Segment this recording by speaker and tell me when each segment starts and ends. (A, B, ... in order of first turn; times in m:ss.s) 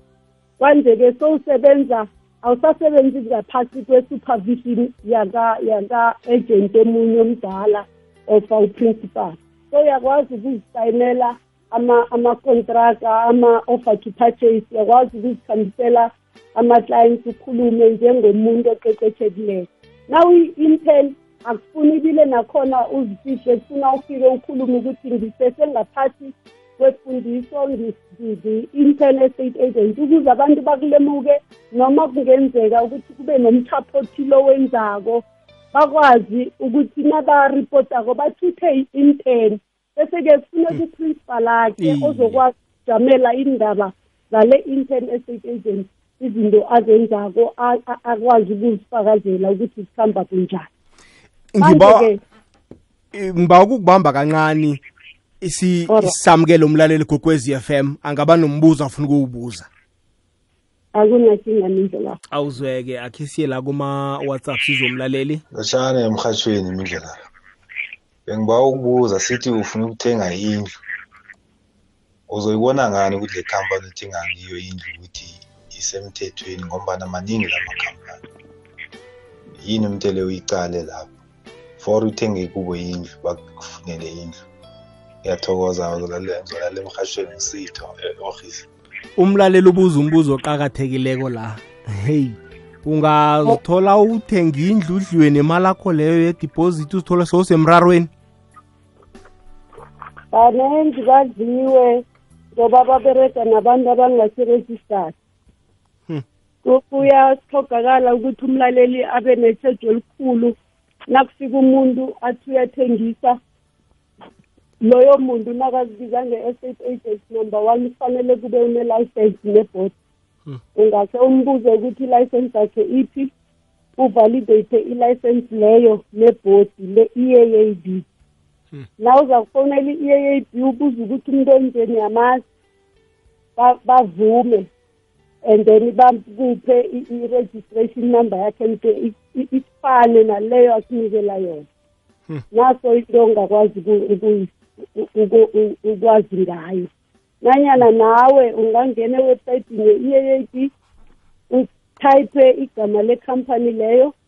0:00.6-0:50.7 A
0:41.8-0:42.4 B
0:51.5-0:52.1 B
0:51.6-0:52.2 A
0:53.1-0:54.8 B
0:55.4-0:59.7 B
0:55.9-0:56.1 A
1:00.9-1:02.2 A
1:02.3-1:05.4 B
1:05.5-1:07.2 C
1:08.3-1:10.6 C
1:12.3-1:18.2 C
1:19.6-1:21.1 C
1:21.8-1:24.4 C
1:25.2-1:28.7 C
1:29.2-1:38.1 B
1:40.3-1:45.1 A
1:46.6-1:50.5 A
1:51.1-1:53.4 A
1:54.8-1:59.9 A
2:00.7-2:03.3 A
2:04.0-2:08.0 A
2:09.0-2:12.4 A
2:13.6-2:14.7 A
2:15.4-2:21.7 A
2:22.5-2:26.9 A
2:27.4-2:30.7 A
2:31.5-2:34.1 A